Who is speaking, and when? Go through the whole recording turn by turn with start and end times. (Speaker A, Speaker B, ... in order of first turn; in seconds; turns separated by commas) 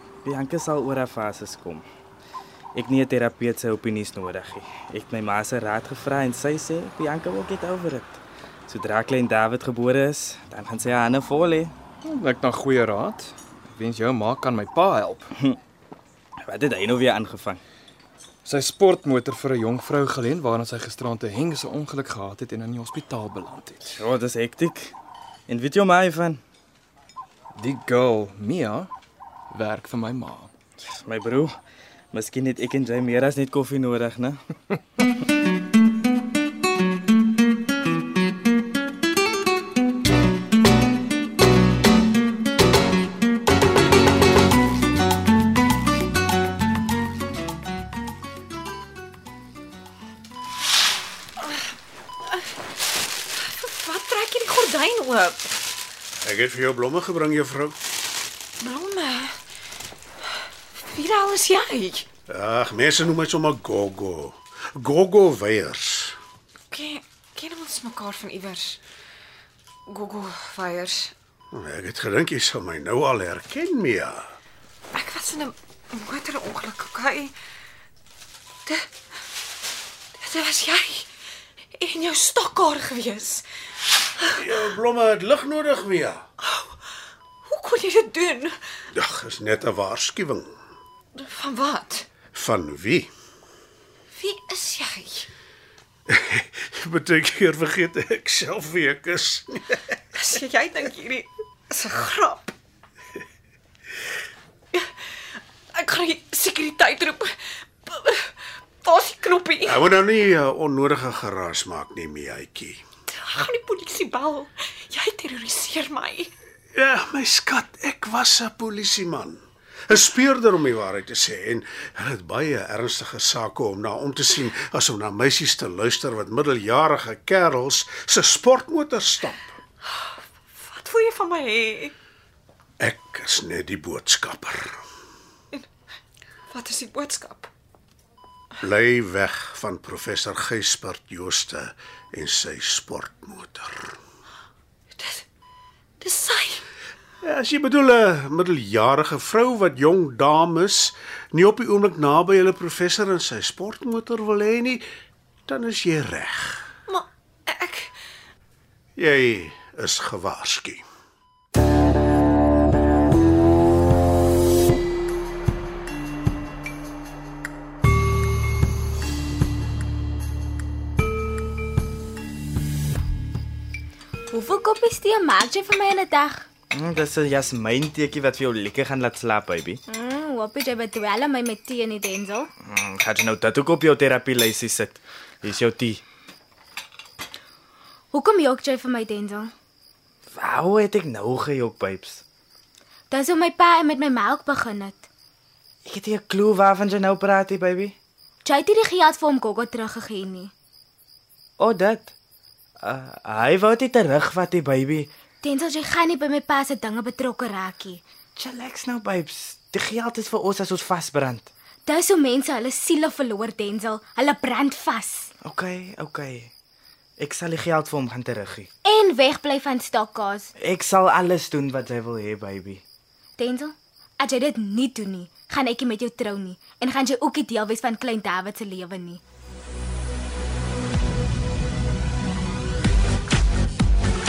Speaker A: 0.2-1.9, Speaker A: 2.8-11.7, Speaker B: 12.0-15.3, Speaker A: 16.4-17.6, Speaker B: 18.4-23.9, Speaker A: 23.8-24.9, Speaker A: 25.5-26.4, Speaker B: 27.5-28.9, Speaker B: 29.5-30.5, Speaker A: 31.0-31.5, Speaker A: 32.1-34.4, Speaker C: 53.3-55.5, Speaker D: 56.2-57.8, Speaker C: 58.6-59.4, Speaker C: 60.8-62.1, Speaker D: 62.3-66.2, Speaker C: 66.7-68.8, Speaker C: 69.9-71.1, Speaker D: 71.5-74.3, Speaker C: 74.9-77.3, Speaker C: 80.2-81.1, Speaker C: 81.8-83.5, Speaker C: 84.2-84.7, Speaker D: 84.3-86.2, Speaker C: 86.4-86.8, Speaker C: 87.5-88.5, Speaker D: 88.9-90.5, Speaker C: 91.2-92.1, Speaker D: 92.3-93.1, Speaker C: 94.1-95.3, Speaker D: 96.1-99.8, Speaker C: 100.1-102.6, Speaker C: 105.7-108.3, Speaker C: 108.8-109.9, Speaker D: 109.7-112.8, Speaker C: 113.1-116.3, Speaker D: 116.7-129.6, Speaker C: 129.9-131.9, Speaker D: 132.8-134.8, Speaker C: 136.5-137.5, Speaker D: 138.6-144.0, Speaker C: 145.0-145.2, Speaker C: 146.0-146.7, Speaker D: 147.2-154.8, Speaker D: 155.5-156.7, Speaker C: 156.9-157.9, Speaker D: 159.0-160.8, Speaker E: 174.3-176.5, Speaker A: 176.7-179.8, Speaker E: 179.9-182.5, Speaker A: 182.6-186.0, Speaker E: 188.1-189.5, Speaker A: 190.3-192.2, Speaker E: 193.1-195.1, Speaker A: 195.9-197.9, Speaker E: 198.4-200.5, Speaker A: 201.6-202.1, Speaker A: 202.8-205.1, Speaker E: 205.4-208.0, Speaker A: 208.4-211.5, Speaker E: 211.9-215.3, Speaker A: 215.4-216.5, Speaker A: 217.2-218.7, Speaker E: 218.8-220.5, Speaker A: 220.6-222.8, Speaker E: 223.4-229.2